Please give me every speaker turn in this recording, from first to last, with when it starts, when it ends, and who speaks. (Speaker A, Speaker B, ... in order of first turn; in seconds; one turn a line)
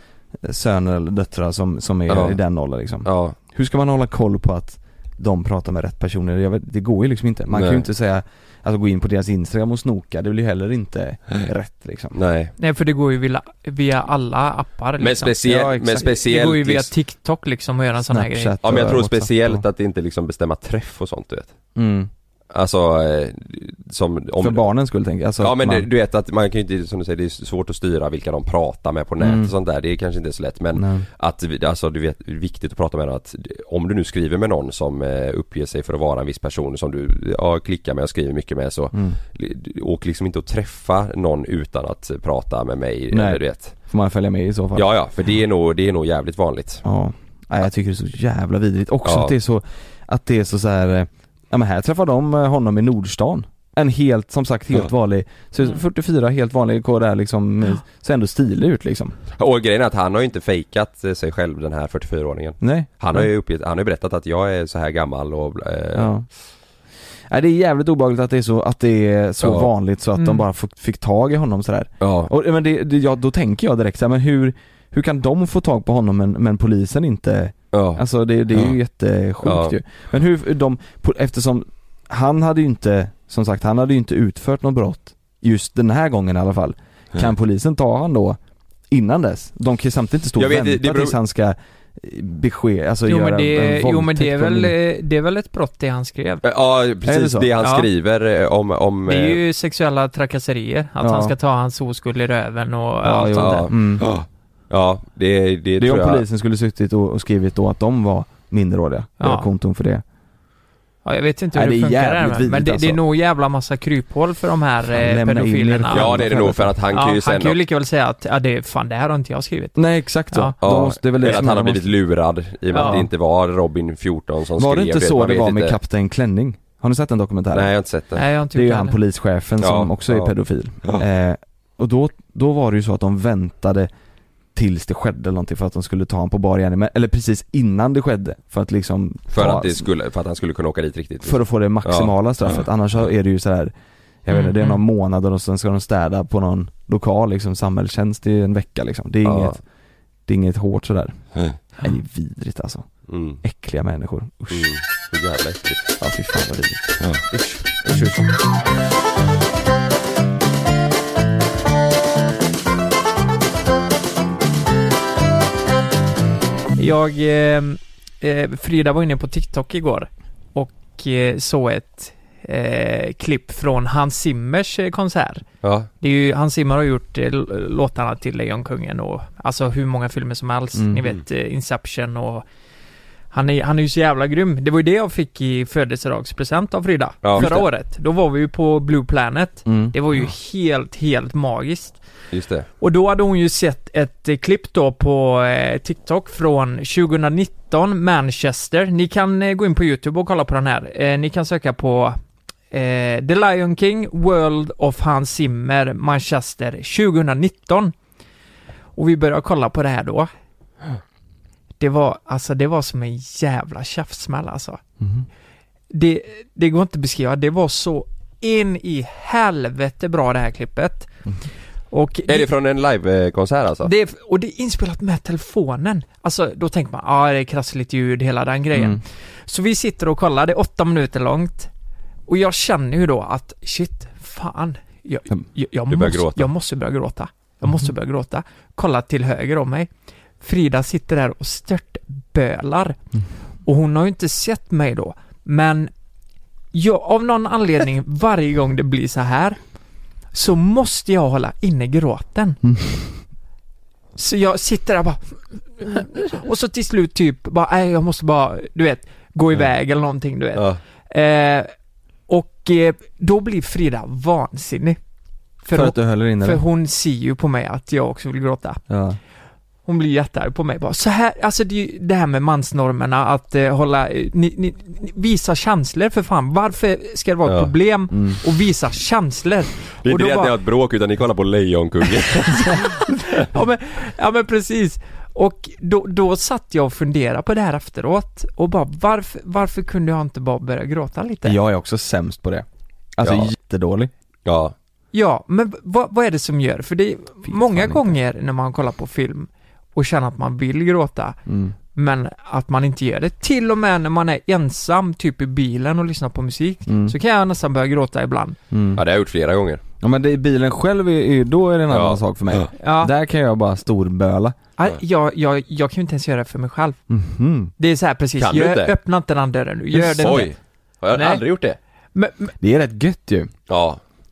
Speaker A: 0.3-12.2
Speaker B: 2.1-2.4
Speaker B: 3.0-3.4
Speaker B: 7.5-7.8
Speaker B: 12.1-12.5
Speaker C: 12.6-15.4
Speaker B: 15.0-16.9
Speaker A: 15.4-16.0
Speaker C: 16.0-18.5
Speaker A: 18.1-19.6
Speaker B: 18.6-21.5
Speaker A: 21.7-22.1
Speaker B: 22.5-24.6
Speaker A: 24.4-25.9
Speaker B: 25.4-43.7
Speaker A: 29.2-29.5
Speaker A: 30.7-31.1
Speaker A: 38.9-39.2
Speaker A: 43.1-44.9
Speaker B: 44.7-46.8
Speaker A: 46.8-59.1
Speaker B: 49.0-49.3
Speaker B: 59.4-66.1
Speaker A: 62.6-63.3
Speaker A: 65.9-66.3
Speaker A: 67.3-88.4
Speaker B: 69.4-69.7
Speaker C: 70.1-70.4
Speaker B: 72.0-72.3
Speaker B: 77.7-78.7
Speaker B: 79.4-79.8
Speaker A: 88.9-94.7
Speaker B: 90.4-91.2
Speaker C: 93.0-96.4
Speaker B: 96.4-99.4
Speaker A: 97.0-97.5
Speaker C: 97.6-97.9
Speaker C: 99.0-103.7
Speaker A: 101.0-101.3
Speaker A: 103.0-104.1
Speaker B: 103.3-106.2
Speaker A: 105.8-110.0
Speaker C: 109.2-109.5
Speaker C: 111.0-116.1
Speaker A: 111.5-113.0
Speaker A: 114.8-116.8
Speaker B: 115.9-117.5
Speaker C: 116.9-120.5
Speaker A: 119.8-121.9
Speaker B: 120.6-125.8
Speaker C: 122.7-123.0
Speaker A: 122.7-123.0
Speaker A: 124.6-127.7
Speaker B: 127.5-128.2
Speaker C: 128.1-129.0
Speaker A: 128.5-133.9
Speaker B: 129.6-131.0
Speaker A: 134.5-139.9
Speaker B: 139.3-142.6
Speaker A: 141.2-143.7
Speaker A: 144.2-149.7
Speaker C: 144.3-144.8
Speaker B: 149.2-149.6
Speaker A: 150.2-154.7
Speaker B: 153.1-153.4
Speaker B: 154.5-155.8
Speaker A: 156.0-158.3
Speaker C: 166.8-175.4
Speaker B: 175.6-175.9
Speaker C: 176.0-182.4
Speaker A: 180.7-181.0
Speaker C: 183.3-192.0
Speaker B: 187.2-187.6
Speaker A: 187.3-187.7
Speaker A: 189.7-189.9
Speaker B: 192.3-192.7
Speaker C: 192.8-202.2
Speaker C: 202.7-207.9
Speaker C: 208.9-210.3
Speaker C: 211.8-214.8
Speaker A: 215.0-215.3
Speaker C: 215.9-221.2
Speaker C: 221.9-222.5
Speaker B: 222.3-223.9
Speaker C: 223.8-231.7
Speaker A: 228.7-229.0
Speaker C: 232.3-239.9
Speaker B: 235.9-236.5
Speaker C: 240.4-243.0
Speaker C: 243.6-245.9
Speaker C: 246.7-249.7
Speaker C: 250.3-252.6
Speaker A: 252.6-253.2
Speaker C: 254.2-261.7
Speaker B: 260.5-260.8
Speaker C: 262.3-265.0
Speaker C: 265.6-268.9
Speaker A: 265.7-266.6
Speaker A: 268.9-269.2
Speaker C: 269.9-280.5
Speaker B: 277.4-277.7
Speaker A: 278.1-278.4
Speaker B: 280.0-282.9
Speaker C: 282.6-291.6
Speaker A: 291.4-292.6
Speaker A: 293.2-294.1
Speaker B: 293.2-293.5
Speaker B: 294.4-294.7
Speaker C: 295.1-301.4
Speaker A: 297.4-298.1
Speaker A: 301.5-301.8
Speaker C: 301.9-308.6
Speaker A: 306.9-307.1
Speaker A: 308.7-309.0
Speaker B: 308.9-309.8
Speaker A: 310.0-314.6
Speaker B: 311.9-312.7
Speaker C: 312.8-313.1
Speaker C: 314.8-317.0
Speaker A: 317.1-317.7
Speaker C: 317.8-320.6
Speaker B: 318.4-318.9
Speaker A: 319.9-320.5
Speaker B: 320.2-321.8
Speaker C: 321.1-322.5
Speaker A: 322.6-323.5
Speaker B: 323.7-324.0